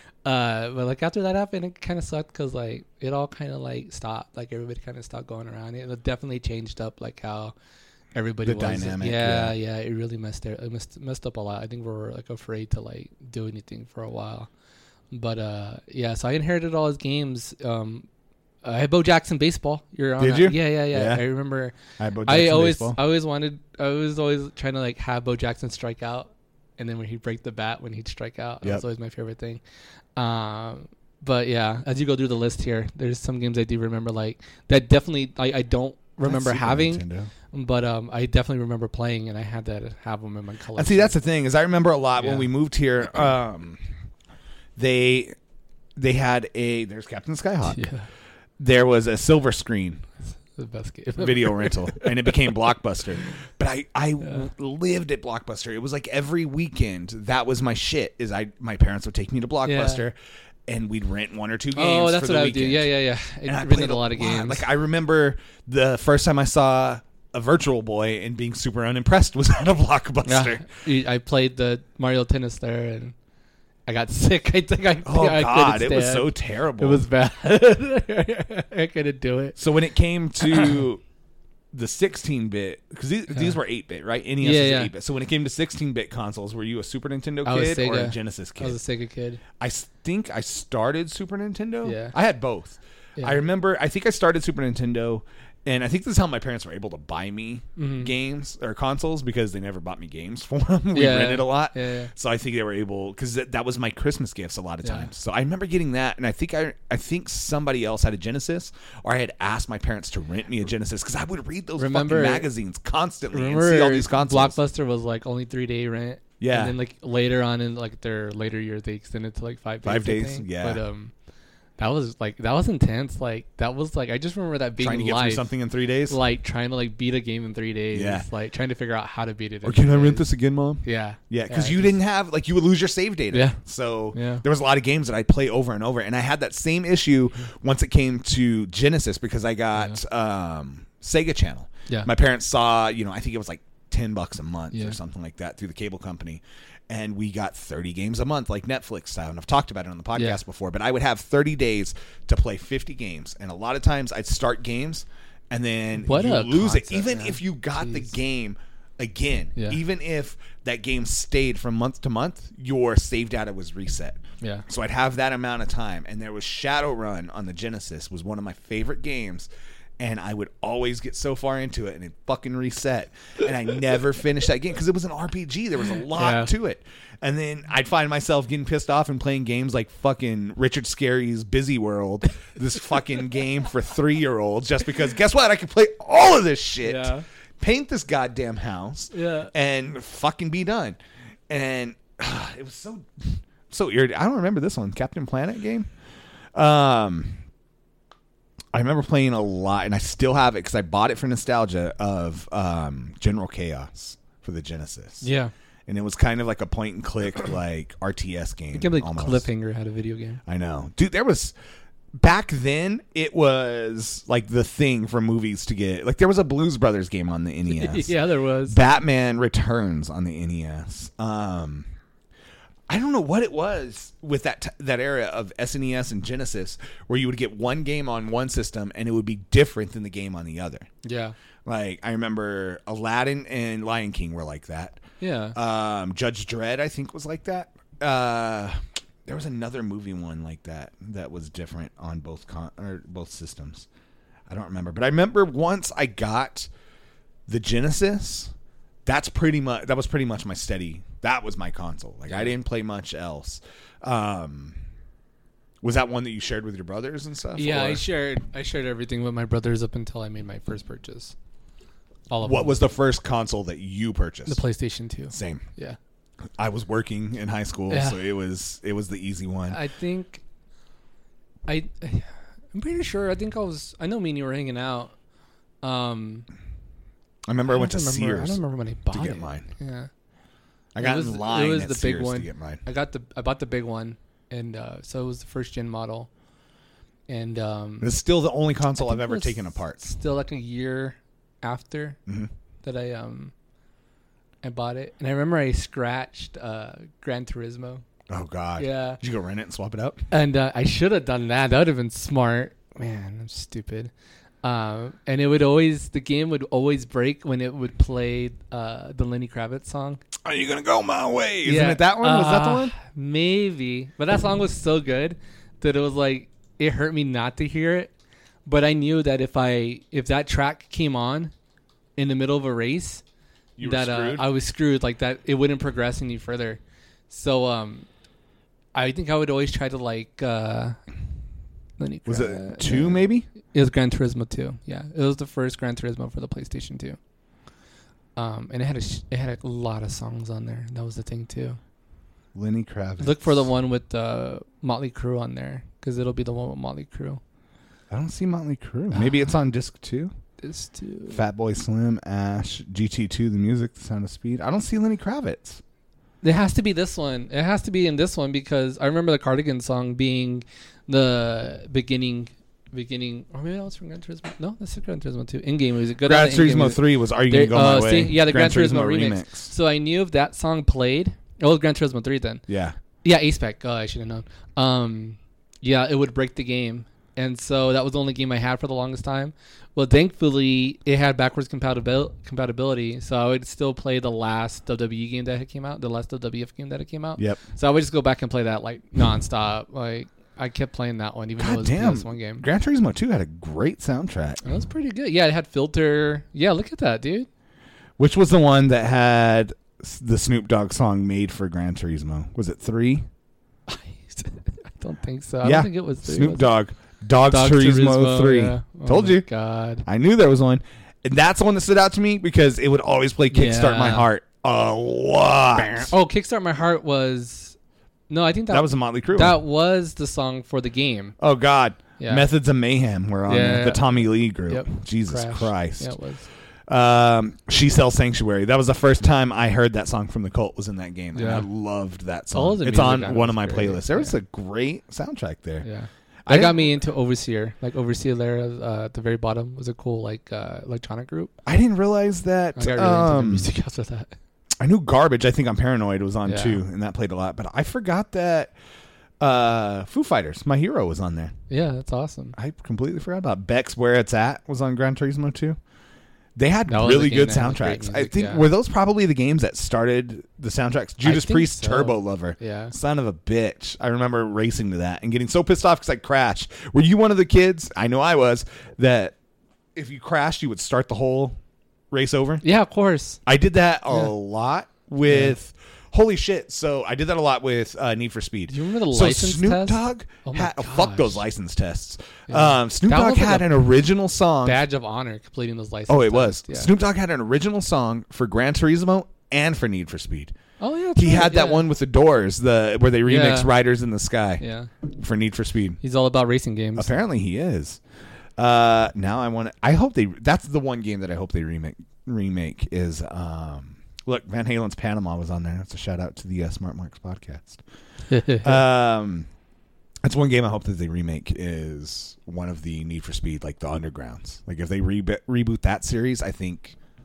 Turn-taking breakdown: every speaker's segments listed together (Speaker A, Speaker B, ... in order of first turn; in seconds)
Speaker A: 0.2-7.5, 8.1-14.5, 15.1-18.1, 18.6-29.6, 30.2-41.2, 42.2-42.5, 47.6-48.0, 50.5-52.4, 59.6-60.0, 61.7-64.6, 70.2-73.1, 73.9-79.6, 80.4-80.8, 83.3-83.6, 84.4-84.9, 87.5-89.4, 91.8-92.1, 97.8-98.1, 100.9-102.1, 111.8-112.5, 113.3-121.1, 121.8-125.5, 126.1-130.3, 130.8-132.0, 133.3-133.6, 134.1-134.4, 150.1-150.4, 156.0-158.1, 176.1-176.5, 186.8-187.2, 189.1-189.5, 205.2-205.5, 208.7-210.4, 217.7-218.8, 231.0-231.3, 235.2-235.6, 257.6-261.4, 262.3-262.8, 264.5-266.0, 267.9-268.2, 269.7-270.4, 271.7-275.1, 275.8-276.5, 277.7-280.1, 281.0-286.3, 287.3-288.1, 289.0-292.2, 292.8-293.5, 294.6-298.0, 298.8-299.2, 300.3-304.1, 304.6-310.2, 311.6-318.1, 318.7-321.5, 322.2-323.2, 323.8-328.1, 328.9-331.0, 332.0-337.2, 338.4-341.8, 343.2-347.4, 349.1-349.5, 350.6-351.4, 356.4-372.6, 373.2-392.6, 394.6-397.5, 403.9-406.7, 407.5-410.1, 413.5-414.3, 415.8-417.8, 418.3-421.4, 422.2-422.5, 423.5-426.5, 431.3-431.7, 432.5-434.4, 435.8-441.5, 442.8-444.3, 446.4-446.8, 451.7-452.6, 456.9-458.6, 461.2-462.9, 472.6-473.4, 475.3-475.6, 478.7-481.4, 482.5-483.8, 484.6-486.9, 490.8-491.9, 493.3-493.7, 494.6-494.9, 496.0-497.2, 508.3-508.9
Speaker B: 8.4-9.6, 20.2-21.2, 22.0-23.0, 36.2-37.3, 40.8-43.8, 44.8-45.3, 46.0-47.8, 48.6-50.0, 51.2-60.2, 60.7-62.9, 63.5-70.7, 75.0-77.0, 79.5-81.0, 81.7-88.8, 89.6-114.6, 116.4-116.7, 119.8-120.8, 124.8-126.2, 127.9-128.3, 129.6-169.5, 170.0-191.0, 191.5-195.9, 196.6-197.4, 198.7-205.3, 205.9-209.5, 210.4-211.5, 212.2-218.1, 218.7-221.9, 222.9-230.9, 231.7-235.0, 235.6-243.9, 244.5-246.7, 247.5-248.5, 249.1-254.8, 255.8-258.0, 262.4-264.6, 265.3-265.6, 266.6-269.8, 277.5-278.6, 279.1-279.7, 280.9-282.8, 288.0-290.1, 298.3-300.2, 310.4-312.9, 323.8-324.4, 332.3-333.5, 342.6-343.7, 348.1-350.3, 351.3-355.8, 366.2-369.7, 372.7-372.9, 391.6-394.6, 398.2-403.3, 405.6-409.4, 410.1-416.1, 418.7-419.6, 421.4-426.1, 426.9-435.9, 436.4-436.9, 441.6-443.7, 444.8-448.7, 449.4-451.5, 452.6-455.8, 456.6-469.4, 469.9-471.6, 472.1-472.6, 473.4-484.8, 486.1-490.6, 491.2-496.0, 497.0-498.0, 498.6-507.8, 508.6-509.5, 510.2-517.0